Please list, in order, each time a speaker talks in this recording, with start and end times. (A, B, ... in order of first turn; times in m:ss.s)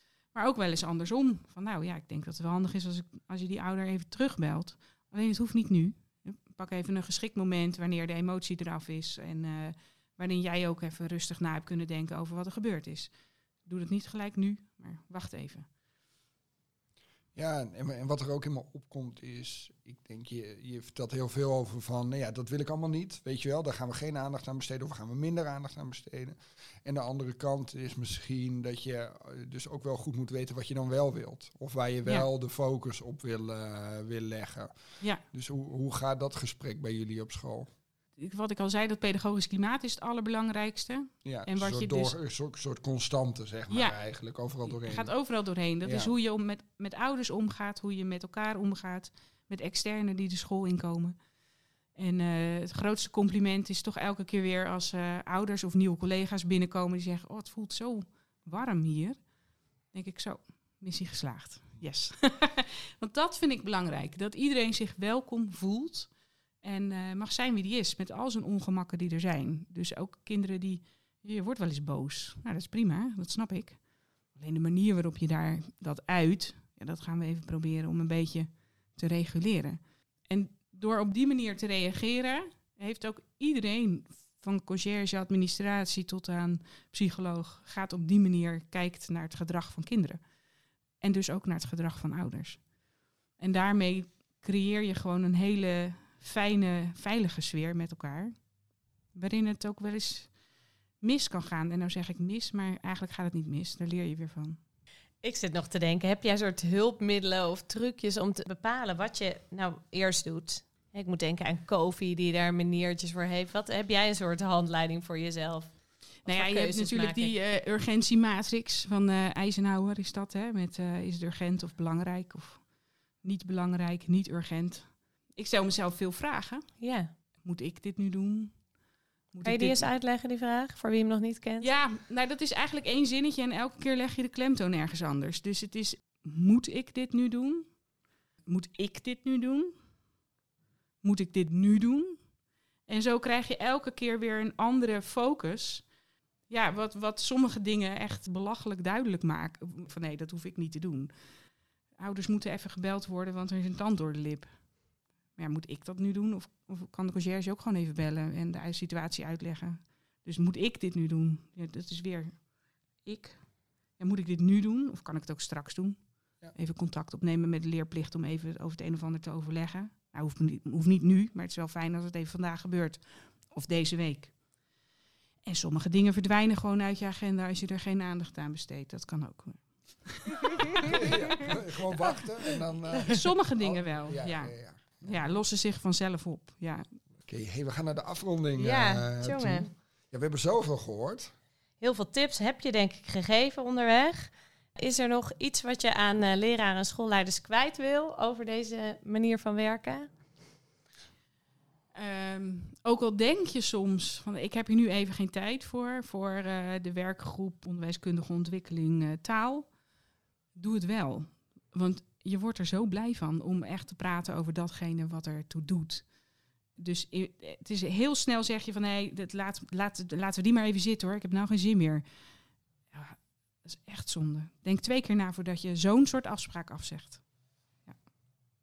0:00.3-0:13.1 A
0:13.6-0:15.7 A
0:17.4-0:34.7 B
0:35.2-0:37.7 B
0:38.2-0:42.1 A
0:41.2-0:45.1 B
0:43.7-0:44.0 A
0:44.7-0:51.2 A
0:45.8-0:46.1 B
0:51.9-0:59.2 A
0:59.9-1:06.1 A
1:06.6-1:13.8 A
1:14.3-1:30.2 A
1:31.0-1:32.7 A
1:33.4-1:38.3 A
1:39.1-1:40.4 A
1:41.0-1:44.6 A
1:45.2-1:57.3 C
1:56.2-2:02.7 A
2:03.2-2:06.8 A
2:06.8-2:07.1 C
2:07.3-2:08.7 A
2:09.3-2:09.9 A
2:09.4-2:11.7 C
2:11.6-2:17.7 A
2:18.5-2:19.7 A
2:21.0-2:22.2 A
2:22.9-2:25.9 A
2:26.5-2:31.1 A
2:32.0-2:34.5 A
2:35.4-2:42.4 A
2:43.0-2:43.4 A
2:44.0-2:46.0 A
2:46.5-2:54.3 A
2:55.4-3:01.5 A
3:00.9-3:05.2 B
3:03.0-3:07.0 A
3:07.2-3:11.3 B
3:08.6-3:09.7 C
3:11.8-3:20.1 C
3:21.9-3:29.7 A
3:30.6-3:36.1 A
3:36.8-3:42.0 A
3:42.9-3:47.3 A